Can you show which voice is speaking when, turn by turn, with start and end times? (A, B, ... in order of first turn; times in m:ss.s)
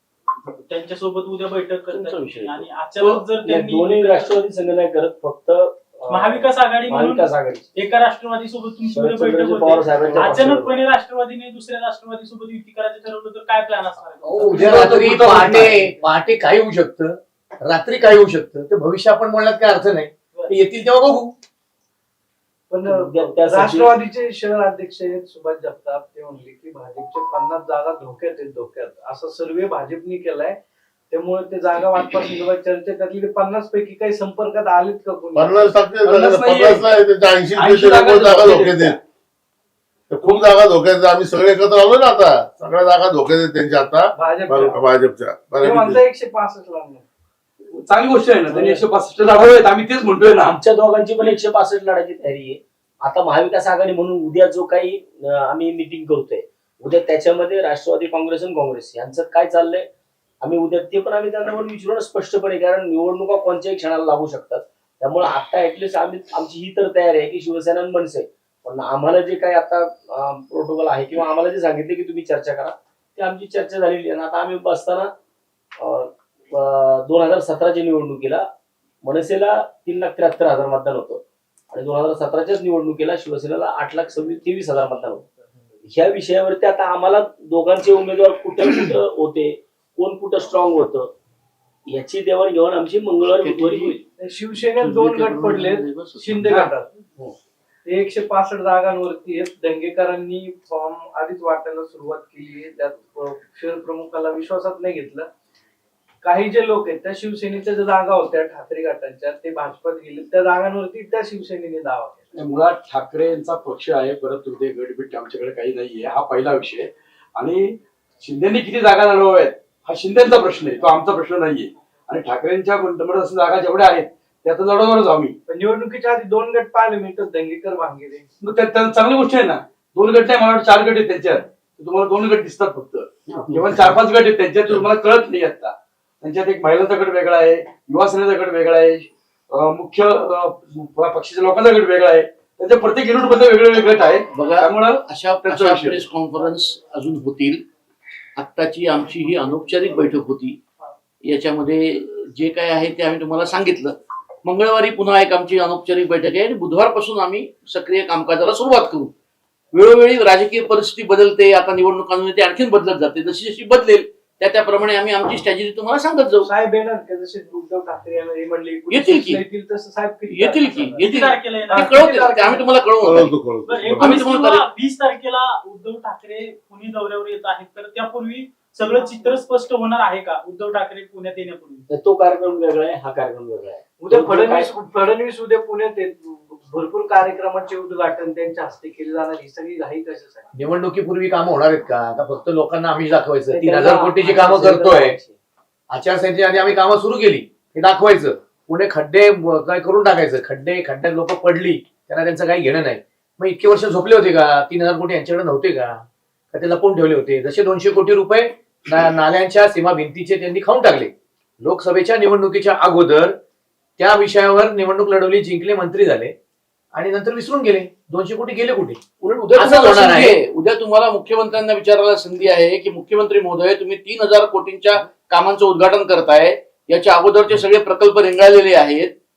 0:00.5-0:04.4 A
0:01.9-0:07.7 B
0:06.1-0:15.3 A
0:08.9-0:10.7 B
0:14.2-0:21.3 C
0:14.5-0:15.8 D
0:22.7-0:30.6 E
0:22.8-0:24.0 B
0:31.1-0:35.7 E
0:35.3-0:39.0 F
0:36.0-0:36.9 D
0:37.5-0:39.0 D
0:40.1-0:46.1 F
0:44.2-0:44.8 E
0:45.6-0:47.0 E
0:47.8-0:50.6 D
0:48.5-0:48.8 B
0:50.3-0:59.9 B
1:00.4-1:15.1 B
1:15.8-1:18.5 B
1:19.0-1:25.2 B
1:25.8-1:31.1 B
1:31.9-1:34.0 B
1:33.3-1:34.0 G
1:34.2-1:36.9 E
1:34.5-1:36.6 G
1:36.4-1:36.7 D
1:37.8-1:45.3 E
1:46.2-1:52.2 E
1:52.3-2:05.3 D
2:05.5-2:08.3 E
2:08.4-2:26.0 D
2:24.3-2:27.6 G
2:28.4-2:30.6 G
2:31.2-2:39.1 G
2:39.7-2:46.5 G
2:46.4-2:51.0 E
2:48.9-2:49.4 G
2:50.3-2:53.3 G
2:51.1-2:51.9 A
2:51.7-2:52.8 E
2:53.0-2:54.2 F
2:53.7-3:01.8 A
2:54.0-2:54.6 G
2:58.8-2:59.4 E
3:01.9-3:04.7 B
3:04.0-3:10.5 E
3:10.5-3:15.2 C
3:13.5-3:15.4 B
3:15.9-3:33.4 C
3:34.0-3:36.3 C
3:36.9-3:39.0 C
3:39.2-3:49.1 G
3:39.5-3:40.4 C